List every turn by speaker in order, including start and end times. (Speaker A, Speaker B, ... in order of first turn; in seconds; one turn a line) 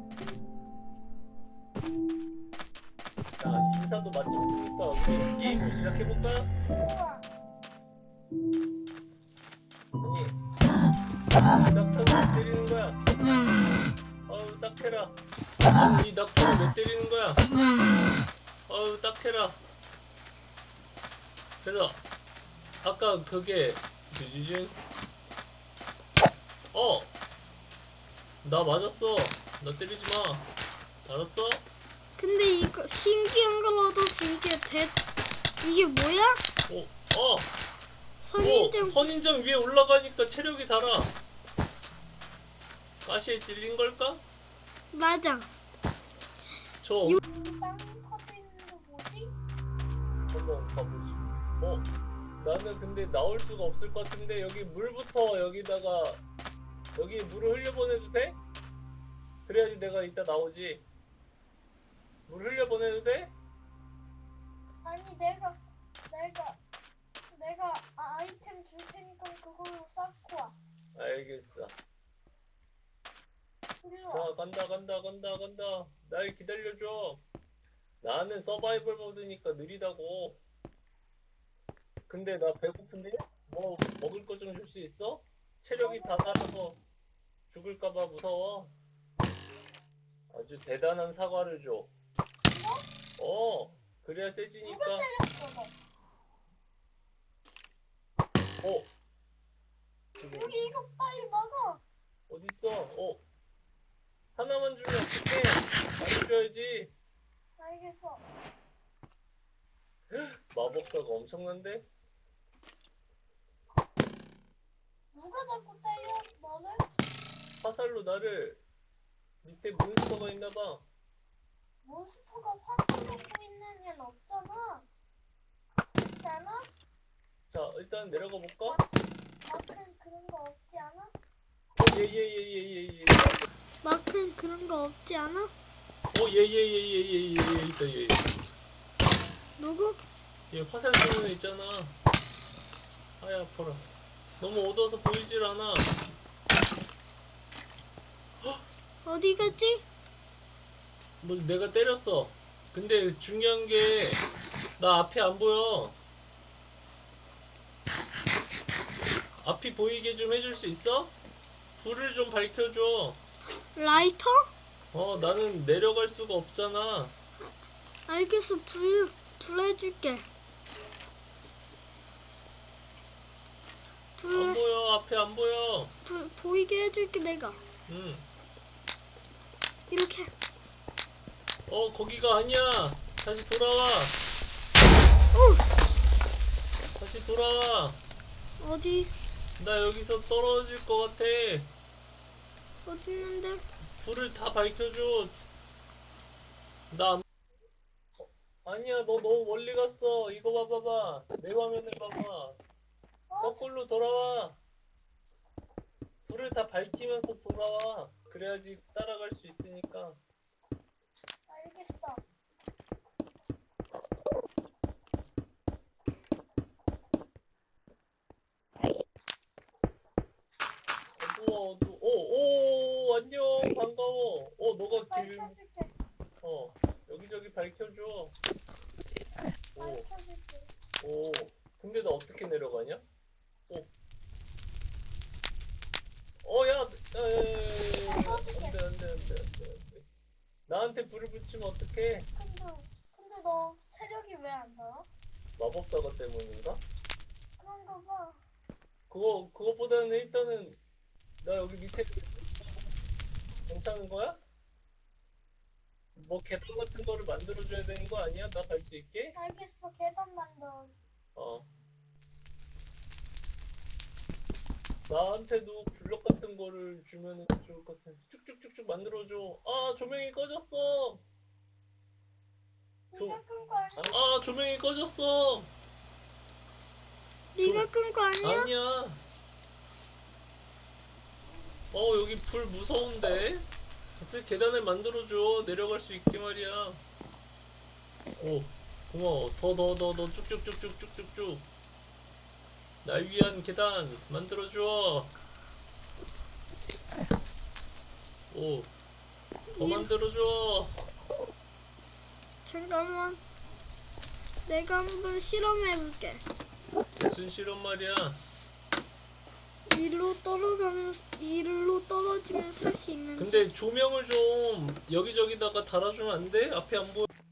Speaker A: 3.4-6.5
Speaker B: 6.7-7.3
Speaker A: 10.0-10.4
Speaker A: 11.6-13.0
Speaker A: 14.3-15.2
Speaker A: 15.7-17.4
Speaker A: 18.7-19.6
Speaker A: 21.6-22.0
Speaker A: 22.8-24.8
Speaker A: 26.7-27.1
Speaker A: 28.4-30.5
Speaker A: 31.1-31.6
Speaker C: 32.2-35.0
Speaker C: 35.6-36.4
Speaker A: 36.7-37.5
Speaker C: 38.2-39.1
Speaker A: 38.4-41.1
Speaker A: 43.0-44.2
Speaker C: 44.9-45.5
Speaker A: 46.8-47.2
Speaker B: 47.2-49.4
Speaker A: 50.3-51.9
Speaker A: 52.4-56.2
Speaker A: 56.9-58.4
Speaker A: 59.5-60.8
Speaker A: 62.3-63.3
Speaker B: 64.8-66.6
Speaker B: 67.3-70.6
Speaker A: 70.9-71.7
Speaker B: 73.8-74.3
Speaker A: 74.1-77.2
Speaker A: 78.0-80.4
Speaker A: 82.1-86.8
Speaker B: 85.8-86.4
Speaker A: 87.5-88.7
Speaker A: 90.3-91.9
Speaker B: 92.5-92.9
Speaker A: 93.2-95.1
Speaker B: 94.6-95.7
Speaker A: 98.6-98.9
Speaker A: 100.2-100.6
Speaker B: 100.2-101.8
Speaker A: 102.3-103.2
Speaker A: 104.4-106.9
Speaker B: 107.6-108.2
Speaker A: 110.1-111.9
Speaker B: 115.1-116.9
Speaker A: 117.6-118.6
Speaker A: 119.4-120.8
Speaker B: 121.8-124.9
Speaker B: 126.0-126.7
Speaker A: 127.5-128.8
Speaker B: 128.6-128.9
Speaker B: 129.5-131.1
Speaker A: 131.8-133.5
Speaker C: 133.8-135.5
Speaker A: 136.1-138.2
Speaker C: 139.6-140.0
Speaker A: 140.5-141.9
Speaker A: 143.2-143.8
Speaker A: 144.4-145.9
Speaker C: 149.1-149.8
Speaker A: 151.2-154.2
Speaker A: 154.8-156.0
Speaker A: 159.4-161.1
Speaker A: 161.8-163.2
Speaker C: 163.8-164.5
Speaker A: 164.9-167.1
Speaker C: 168.1-170.2
Speaker C: 174.2-174.6
Speaker A: 174.3-175.9
Speaker C: 176.1-177.6
Speaker A: 177.9-178.2
Speaker C: 179.9-180.3
Speaker A: 181.7-184.2
Speaker C: 185.3-185.6
Speaker A: 187.0-188.0
Speaker C: 188.6-189.1
Speaker A: 189.6-191.7
Speaker C: 192.9-193.6
Speaker A: 194.0-195.3
Speaker A: 196.9-197.2
Speaker A: 198.2-202.6
Speaker B: 203.3-203.6
Speaker A: 203.4-204.6
Speaker A: 206.2-210.2
Speaker B: 211.5-212.2
Speaker A: 221.2-225.6
Speaker B: 224.9-225.9
Speaker A: 226.4-228.3
Speaker A: 229.8-230.1
Speaker B: 229.8-230.7
Speaker A: 231.0-233.0
Speaker A: 236.4-240.1
Speaker B: 238.1-238.8
Speaker A: 240.7-242.3
Speaker B: 242.4-245.1
Speaker A: 245.6-246.8
Speaker B: 247.6-248.4
Speaker A: 249.1-250.8
Speaker A: 251.4-252.9
Speaker A: 253.7-254.4
Speaker A: 256.1-259.4
Speaker B: 259.4-260.9
Speaker A: 261.4-261.7
Speaker A: 265.1-271.2
Speaker B: 273.1-274.2
Speaker A: 273.1-273.4
Speaker A: 273.9-275.7
Speaker C: 277.6-278.7
Speaker A: 277.6-277.9
Speaker A: 278.4-279.2
Speaker A: 281.9-283.7
Speaker A: 284.2-287.0
Speaker A: 288.4-291.6
Speaker A: 293.0-295.3
Speaker A: 298.5-298.9
Speaker C: 299.7-300.1
Speaker A: 299.8-300.9
Speaker C: 302.6-303.4
Speaker C: 304.7-306.4
Speaker A: 307.2-308.4
Speaker C: 309.9-313.7
Speaker A: 313.4-317.3